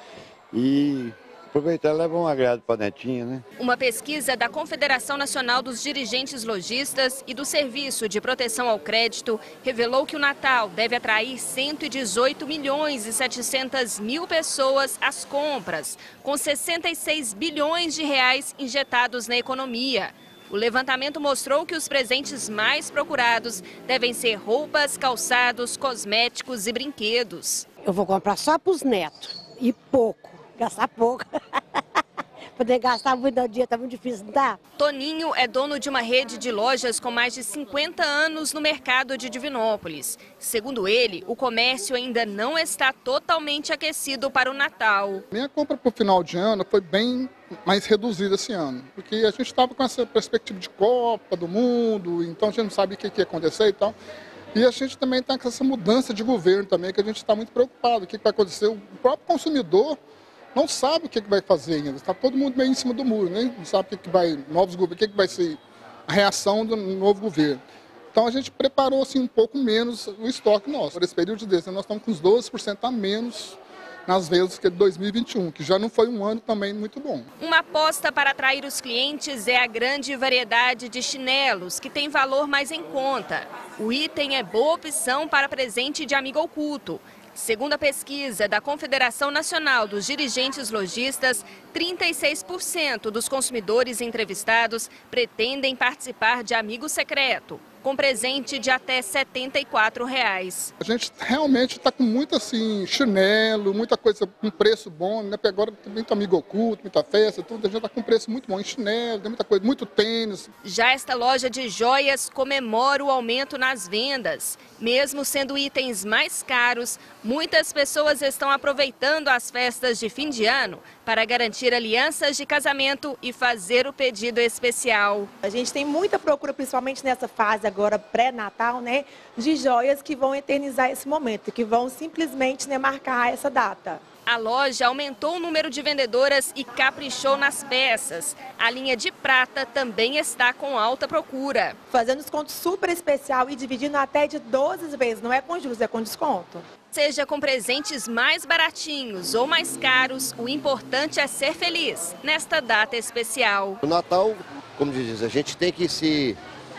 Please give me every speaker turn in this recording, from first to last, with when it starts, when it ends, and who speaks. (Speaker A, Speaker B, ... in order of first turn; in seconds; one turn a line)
Speaker A: 0.5-3.5
Speaker B: 3.6-27.7
Speaker C: 27.8-31.6
Speaker C: 32.6-34.6
Speaker B: 34.8-45.2
Speaker D: 45.3-54.0
Speaker D: 54.5-60.0
Speaker D: 60.5-67.6
Speaker D: 68.1-77.3
Speaker B: 77.4-100.7
Speaker D: 100.8-110.5
Speaker B: 110.6-125.3
Speaker E: 125.4-134.0
Speaker B: 134.3-141.8
Speaker E: 141.9-146.6
Speaker B: 146.9-153.8
Speaker F: 153.8-156.4